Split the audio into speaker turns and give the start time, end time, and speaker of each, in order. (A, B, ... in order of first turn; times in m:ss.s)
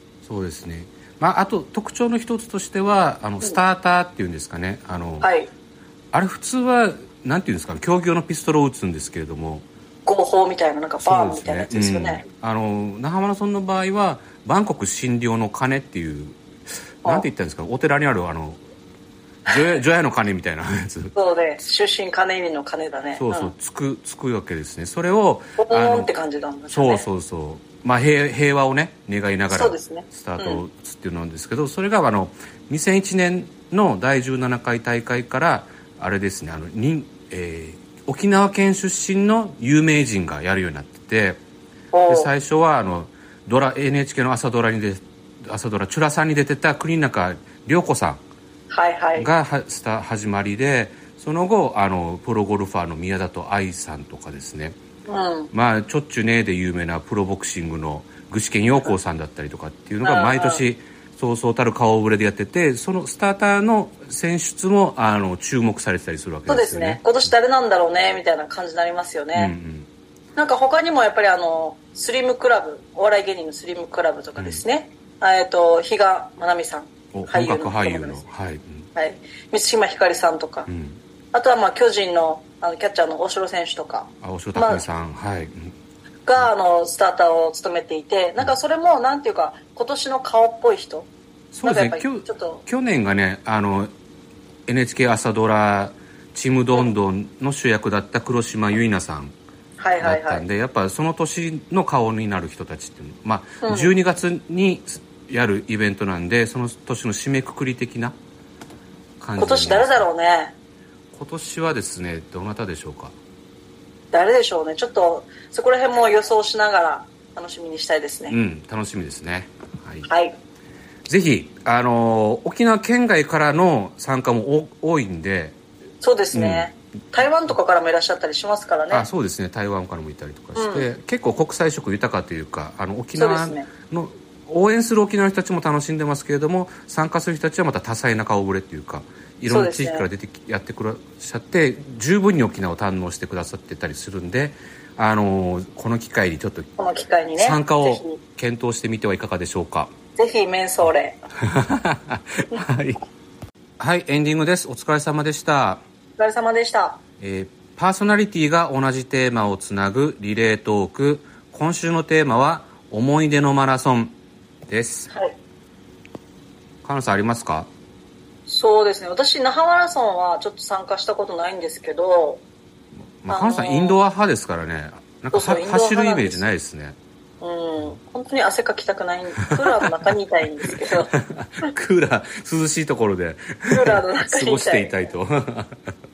0:00.2-0:05.3 A
0:05.2-0:05.5 B
0:06.1-0:09.7 A
0:10.1-0:12.2 B
0:11.0-0:16.4 A
0:17.0-0:18.6 A
0:19.4-0:21.1 A
0:21.1-0:23.5 B
0:23.2-0:26.1 A
0:25.6-0:27.0 B
0:26.7-0:41.4 A
0:29.5-0:30.6 B
0:41.9-0:42.3 B
0:42.1-0:48.2 A
0:48.7-0:49.3 B
0:49.2-0:54.8 A
0:55.1-0:55.5 B
0:55.5-1:07.0 A
1:00.0-1:00.6 B
1:06.5-1:09.5 B
1:09.3-1:09.9 A
1:10.4-1:18.2 B
1:17.1-1:18.9 A
1:19.0-1:20.7 B
1:20.7-1:21.0 A
1:21.3-1:24.8 B
1:24.2-1:25.8 A
1:26.3-1:31.1 B
1:31.5-1:33.9 A
1:31.6-1:32.6 B
1:34.7-1:39.3 A
1:39.8-1:40.4 B
1:40.0-1:48.2 A
1:43.6-1:43.9 B
1:49.2-1:50.1 A
1:49.4-1:50.6 B
1:51.1-1:53.2 A
1:54.1-1:58.4 B
1:58.3-2:00.1 A
2:00.0-2:00.4 B
2:01.1-2:05.6 A
2:06.0-2:09.1 B
2:06.3-2:06.7 A
2:08.9-2:26.7 A
2:10.6-2:10.9 B
2:13.2-2:13.7 B
2:19.4-2:20.1 B
2:26.8-2:28.2 B
2:27.4-2:29.9 A
2:30.2-2:31.2 B
2:31.4-2:33.0 A
2:33.8-2:35.8 A
2:36.2-2:37.0 B
2:37.2-2:44.2 A
2:44.7-2:45.1 A
2:45.1-2:45.3 B
2:46.8-2:47.7 A
2:48.5-2:52.4 B
2:53.2-2:57.0 A
2:53.3-2:54.0 B
2:55.3-2:56.4 B
2:57.4-3:01.1 B
3:01.1-3:05.8 A
3:03.7-3:05.1 B